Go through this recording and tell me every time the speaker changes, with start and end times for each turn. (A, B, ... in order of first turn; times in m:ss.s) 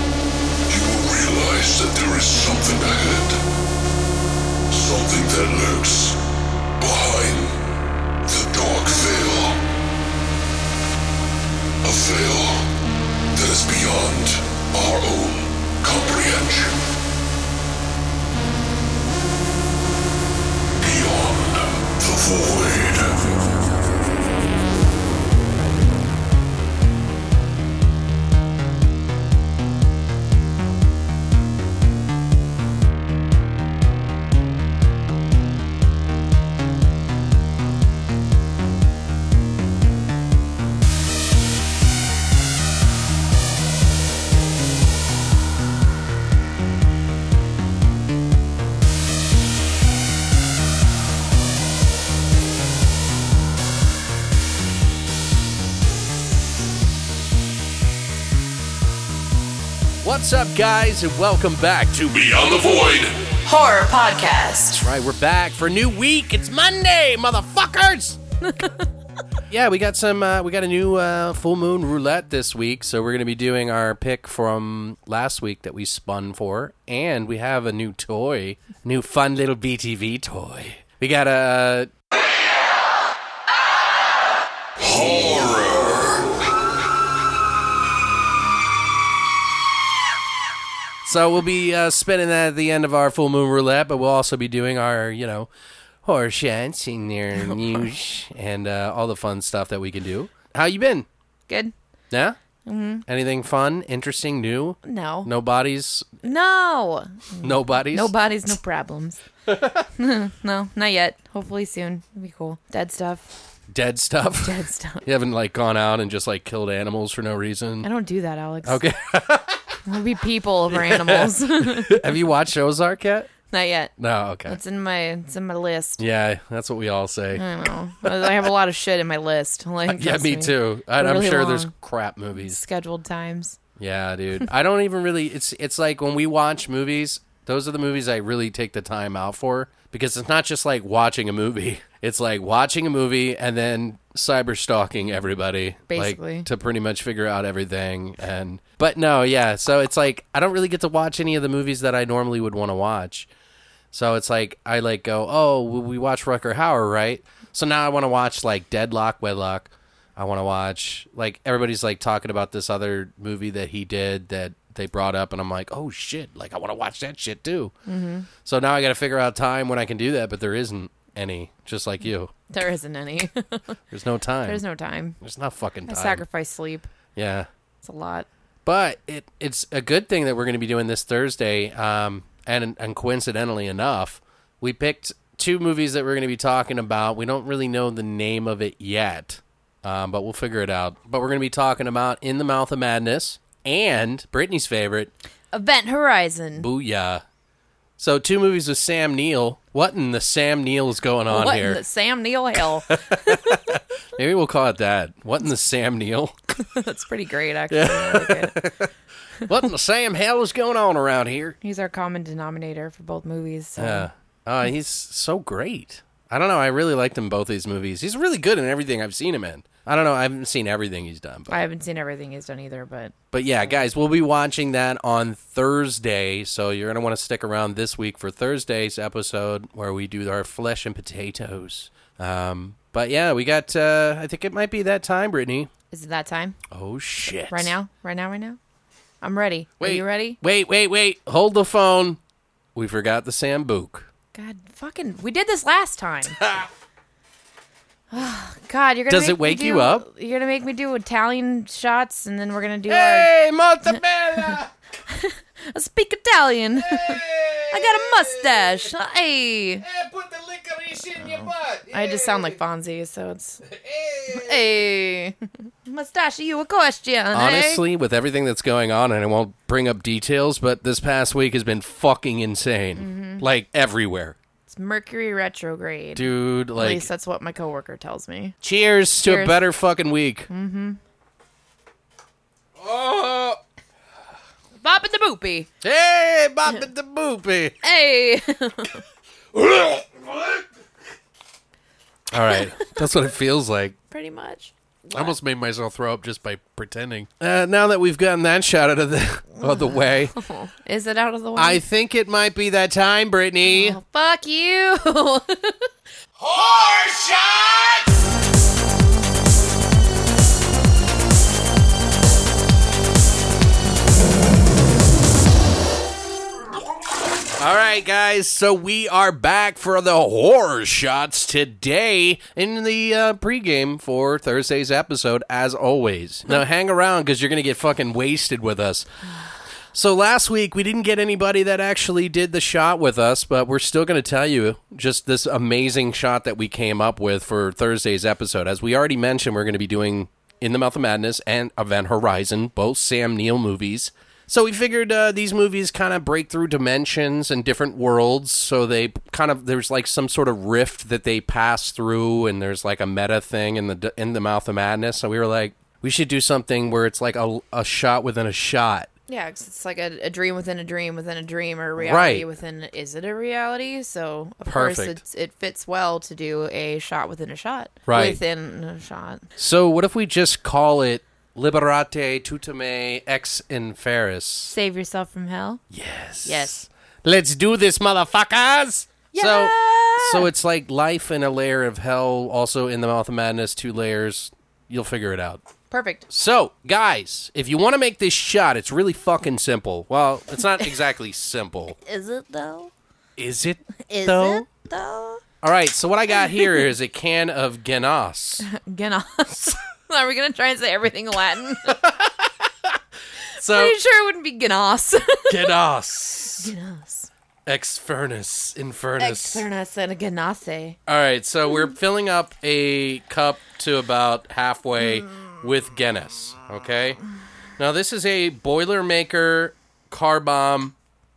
0:00.7-0:03.4 A
0:04.7-0:06.2 A
0:06.8-0:07.6 A
0:08.2-0:09.6 A
0:11.8-0:12.7 A
0:13.3-0:16.8 A
0:20.8-0:23.3 A
1:00.0-1:02.3 B
1:02.1-1:03.2 A
1:03.4-1:04.8 C
1:04.7-1:08.2 B
1:08.5-1:08.8 C
1:09.5-1:21.9 B
1:24.8-1:26.2 A
1:31.0-1:35.5 B
1:36.0-1:41.1 B
1:37.5-1:37.8 C
1:41.5-1:41.7 C
1:42.1-1:42.4 B
1:42.6-1:43.0 C
1:43.0-1:46.1 B
1:44.8-1:45.3 C
1:46.2-1:49.2 C
1:47.4-1:48.1 B
1:49.5-1:49.8 B
1:50.0-1:53.3 C
1:53.7-1:57.9 B
1:54.4-1:55.0 C
1:57.8-1:58.8 C
1:58.6-1:59.8 B
1:59.8-2:02.1 C
2:00.7-2:03.3 B
2:03.5-2:03.9 C
2:04.0-2:04.6 B
2:04.4-2:06.0 C
2:06.0-2:07.4 B
2:07.3-2:11.7 C
2:08.0-2:08.4 B
2:09.9-2:12.6 B
2:12.4-2:13.6 C
2:13.8-2:33.3 B
2:25.9-2:26.5 C
2:33.9-2:47.7 B
2:47.8-2:48.3 C
2:48.4-2:52.3 B
2:52.5-2:53.7 C
2:53.9-2:54.6 B
2:54.4-2:55.2 C
2:55.2-2:56.2 B
2:55.9-2:56.9 C
2:57.2-2:57.5 B
2:57.8-2:58.3 C
2:58.6-3:15.1 B
3:15.5-3:16.7 C
3:16.6-3:17.2 B
3:18.0-3:21.8 B
3:21.3-3:23.6 C
3:22.9-3:26.3 B
3:26.6-3:28.6 C
3:27.7-3:28.9 B
3:29.4-3:31.6 B
3:31.6-3:34.1 C
3:33.8-3:41.6 B
3:41.5-3:43.8 C
3:43.3-3:55.7 B
3:55.9-3:56.6 C
3:56.7-3:57.7 B
3:57.5-3:58.6 C
3:59.2-4:00.4 C
3:59.8-4:02.2 B
4:02.7-4:04.1 B
4:04.3-4:06.4 C
4:06.4-4:06.7 B
4:08.1-4:13.3 C
4:09.1-4:10.0 B
4:12.9-4:14.7 B
4:13.9-4:19.8 C
4:16.8-4:18.9 B
4:19.8-4:22.6 B
4:21.2-4:23.6 C
4:23.6-4:24.6 B
4:24.3-4:27.8 C
4:27.3-4:34.4 B
4:33.0-4:33.5 C
4:34.7-4:38.6 C
4:36.1-4:37.1 B
4:38.6-4:40.5 B
4:39.2-4:39.6 C
4:40.5-4:41.0 C
4:42.8-4:43.6 B
4:44.8-4:45.7 C
4:45.8-4:47.8 B
4:47.8-4:49.0 C
4:49.5-4:50.6 B
4:52.3-4:53.9 B
4:52.5-4:53.0 C
4:54.1-4:55.3 C
4:55.1-5:00.4 B
4:59.6-5:01.8 C
5:01.6-5:04.0 B
5:03.6-5:05.9 C
5:06.5-5:08.0 A
5:07.0-5:07.8 B
5:17.6-5:29.0 B
5:29.9-5:59.1 B
5:59.3-6:09.4 C
6:02.0-6:02.4 B
6:04.6-6:05.2 B
6:08.1-6:08.4 B
6:09.6-6:14.7 B
6:14.7-6:15.8 C
6:15.9-6:25.6 B
6:16.4-6:16.8 C
6:19.3-6:20.5 C
6:25.9-6:26.2 C
6:26.3-6:32.0 B
6:32.0-6:32.9 C
6:33.4-6:34.7 B
6:34.0-6:35.4 C
6:35.6-6:38.7 B
6:38.6-6:42.1 C
6:41.9-6:42.3 B
6:43.5-6:45.8 C
6:43.6-6:44.0 B
6:45.5-6:46.7 B
6:46.6-6:47.3 C
6:47.6-6:49.6 B
6:49.2-6:51.0 C
6:51.1-6:57.2 B
6:57.8-7:00.9 B